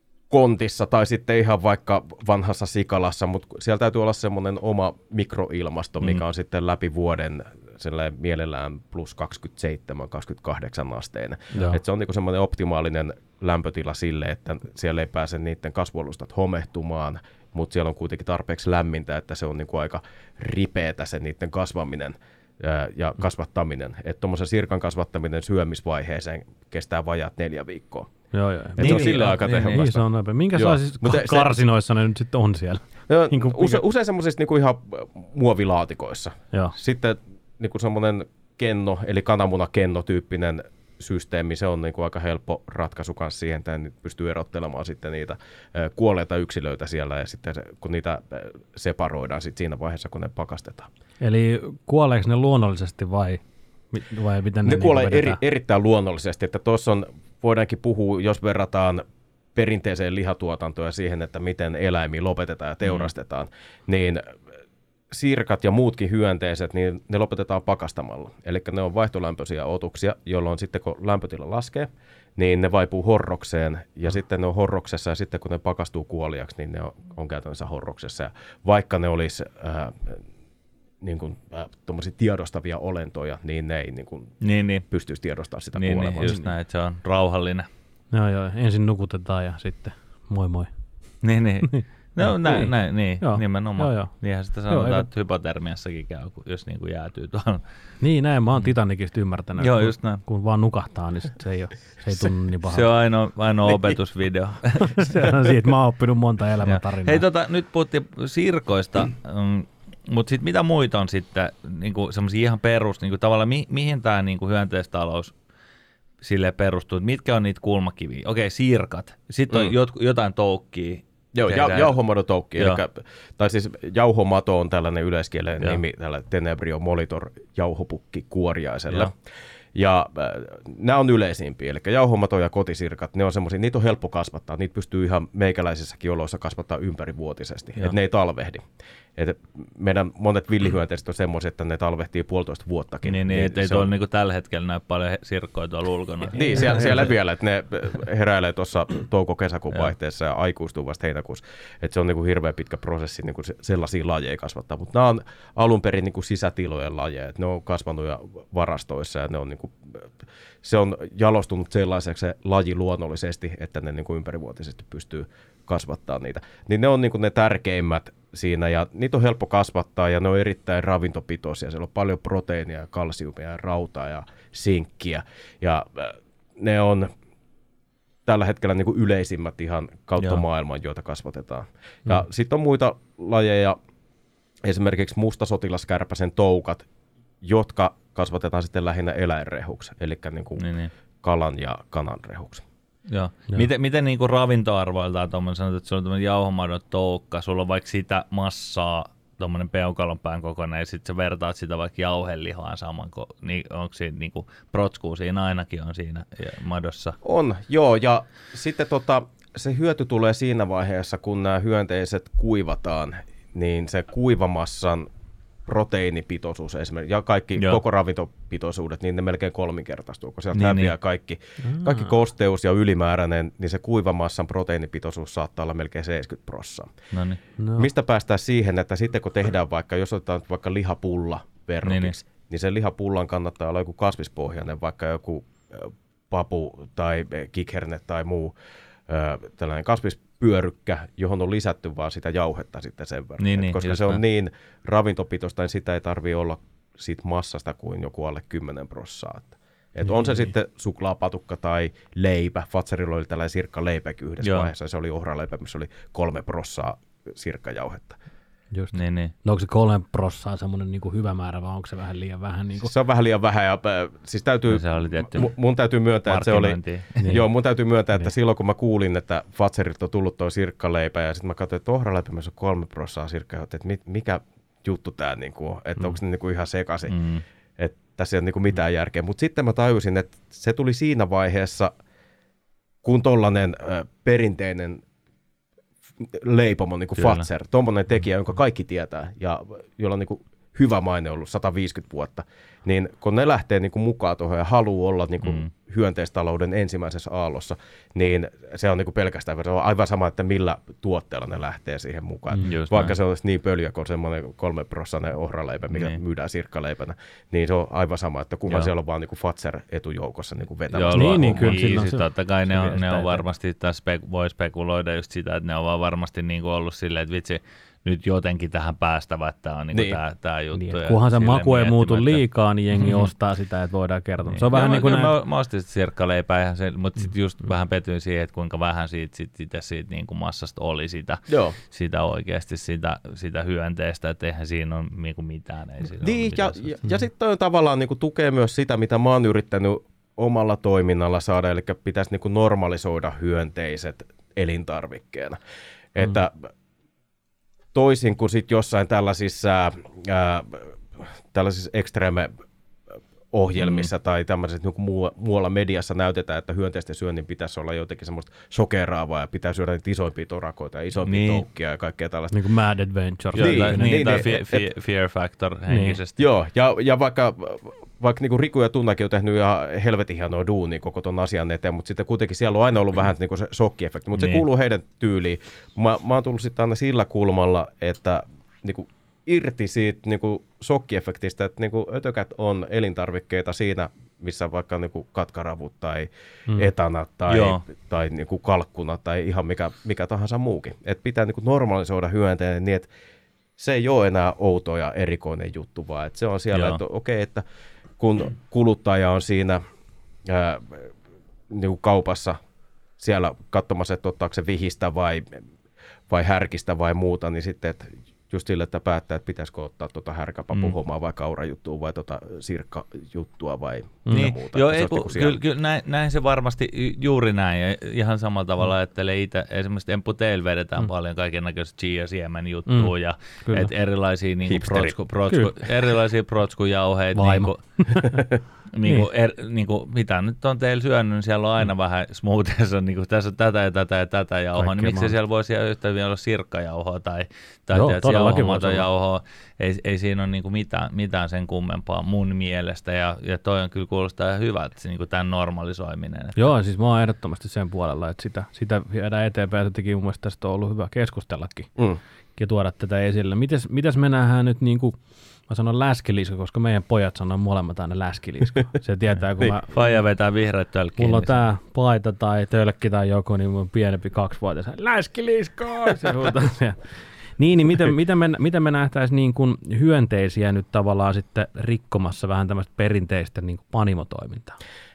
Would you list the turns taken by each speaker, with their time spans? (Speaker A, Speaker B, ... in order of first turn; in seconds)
Speaker A: 0.3-28.1, 28.8-31.6, 33.1-50.9, 54.6-59.0, 59.5-64.3, 65.1-80.2, 81.0-84.3, 84.9-86.3, 119.5-119.8, 121.3-129.1, 129.8-138.6, 139.2-143.9, 146.3-160.1, 160.6-177.1, 178.2-183.8, 184.6-186.8, 187.4-190.7, 191.2-192.6, 207.2-215.1, 215.7-226.9, 227.8-238.5, 239.1-258.1, 262.8-277.1, 277.8-281.9, 283.0-285.0, 286.2-311.9, 319.9-320.2, 331.5-331.8, 336.2-345.6, 346.1-346.7, 347.9-352.5, 353.5-362.5, 363.6-364.9, 366.4-393.1, 393.8-397.6, 398.2-399.8, 400.4-401.1, 401.7-402.6, 403.2-405.6, 406.3-415.6, 424.6-425.1
Speaker B: 11.5-11.8, 28.3-33.8, 51.2-55.4, 86.2-86.5, 88.1-90.7, 91.7-94.1, 94.7-95.1, 98.0-102.9, 104.8-107.2, 221.6-222.1, 227.6-227.9, 250.1-250.5, 258.7-262.9, 267.2-267.4, 311.1-313.4, 320.7-325.3, 362.5-364.5, 365.9-366.2, 414.2-414.5, 422.9-423.1, 423.6-423.9, 427.4-428.5, 429.0-429.3, 434.8-435.4, 437.9-439.1, 446.6-451.9, 452.6-460.2, 461.2-467.0, 467.6-474.8
Speaker C: 28.8-29.8, 84.4-84.8, 85.8-87.7, 91.2-97.6, 99.6-100.2, 102.7-105.3, 106.6-115.3, 116.2-121.9, 143.0-147.0, 190.6-190.9, 193.1-207.2, 220.5-220.9, 227.1-227.4, 231.8-232.1, 243.4-244.2, 254.4-254.7, 258.9-259.3, 264.7-265.5, 266.2-267.2, 277.1-277.4, 287.2-287.5, 295.4-295.7, 302.6-303.1, 305.9-306.2, 310.9-322.4, 323.0-323.3, 324.5-336.9, 353.8-354.1, 361.2-361.6, 363.5-366.4, 374.4-374.6, 387.5-387.8, 396.7-397.0, 414.3-427.8, 428.9-446.7, 459.9-461.6